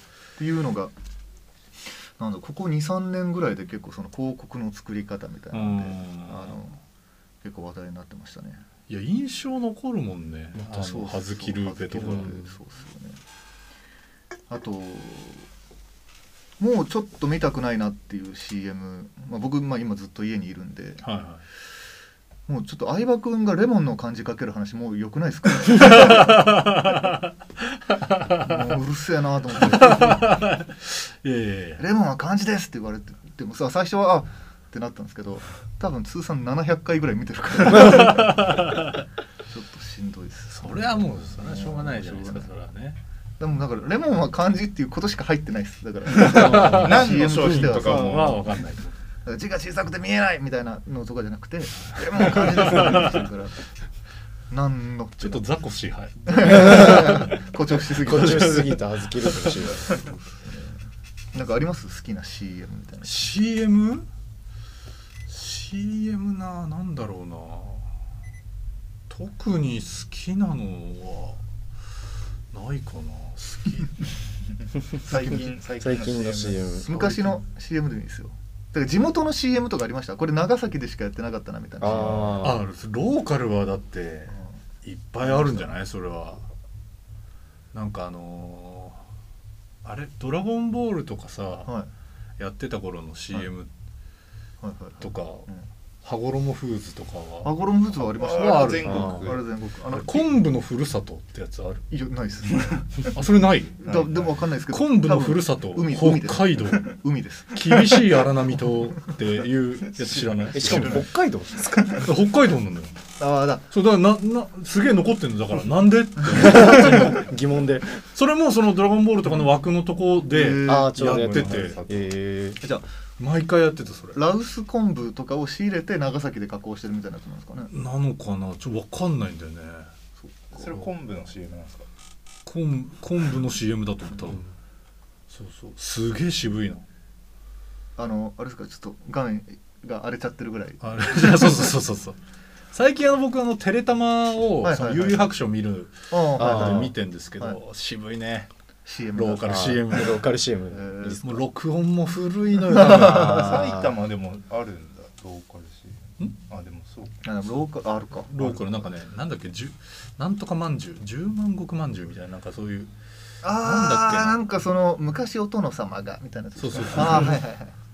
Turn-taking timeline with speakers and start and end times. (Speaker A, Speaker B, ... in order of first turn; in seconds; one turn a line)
Speaker A: 0.4-0.9
Speaker A: 2.2-6.8
Speaker B: 5.5-6.6
Speaker A: 7.4-8.6
Speaker B: 8.9-12.4
Speaker A: 10.7-13.2
Speaker C: 12.0-12.5
Speaker A: 14.5-15.5
Speaker A: 16.6-21.0
Speaker B: 21.0-21.4
Speaker A: 22.5-26.5
Speaker B: 25.7-28.6
Speaker A: 28.4-30.3
Speaker B: 29.6-31.8
Speaker A: 31.8-38.8
Speaker C: 37.7-38.2
Speaker B: 37.7-38.9
Speaker A: 39.5-42.5
Speaker B: 40.5-43.0
Speaker A: 43.4-48.4
Speaker B: 46.1-49.0
Speaker D: 46.2-48.6
Speaker A: 49.3-53.6
Speaker B: 52.4-53.2
Speaker A: 54.5-55.4
Speaker B: 55.2-59.5
Speaker A: 56.3-58.8
Speaker C: 56.5-57.1
Speaker C: 58.0-60.0
Speaker A: 59.8-60.8
Speaker A: 61.3-63.3
Speaker B: 63.0-64.1
Speaker B: 65.3-67.9
Speaker B: 69.1-71.4
Speaker B: 72.5-74.0
Speaker D: 74.9-77.4
Speaker A: 75.1-75.4
Speaker C: 75.8-76.9
Speaker A: 76.8-82.5
Speaker C: 81.8-82.6
Speaker B: 82.4-86.5
Speaker A: 85.2-85.7
Speaker B: 87.7-89.0
Speaker B: 89.8-91.7
Speaker B: 92.4-93.7
Speaker A: 94.6-95.6
Speaker B: 95.0-95.5
Speaker B: 96.0-97.5
Speaker A: 97.4-100.3
Speaker D: 98.1-99.4
Speaker B: 98.2-99.4
Speaker C: 98.9-99.2
Speaker B: 99.9-101.9
Speaker A: 101.9-102.9
Speaker D: 102.5-102.9
Speaker B: 103.1-103.9
Speaker A: 103.8-108.0
Speaker D: 103.8-104.2
Speaker B: 104.7-107.0
Speaker B: 107.5-111.1
Speaker D: 110.0-110.6
Speaker C: 110.5-112.1
Speaker A: 110.6-111.1
Speaker B: 111.9-113.0
Speaker A: 113.2-113.7
Speaker B: 113.7-117.3
Speaker C: 116.3-118.0
Speaker B: 118.1-121.8
Speaker A: 120.2-121.0
Speaker C: 120.7-122.6
Speaker D: 121.0-122.2
Speaker A: 122.6-122.9
Speaker B: 123.2-124.2
Speaker A: 124.1-127.7
Speaker B: 127.7-129.9
Speaker A: 130.2-130.7
Speaker D: 130.5-131.9
Speaker B: 132.5-134.4
Speaker B: 135.3-136.8
Speaker A: 138.0-141.6
Speaker B: 140.8-142.2
Speaker B: 142.7-148.5
Speaker A: 144.6-145.3
Speaker A: 146.1-147.6
Speaker C: 146.4-146.9
Speaker A: 148.9-149.8
Speaker B: 149.2-150.2
Speaker C: 149.4-151.4
Speaker A: 150.7-151.2
Speaker B: 151.2-153.6
Speaker D: 152.8-157.2
Speaker A: 152.8-153.1
Speaker C: 152.9-153.9
Speaker A: 157.2-158.6
Speaker B: 158.3-162.9
Speaker A: 163.4-167.8
Speaker B: 163.4-164.4
Speaker B: 166.6-167.4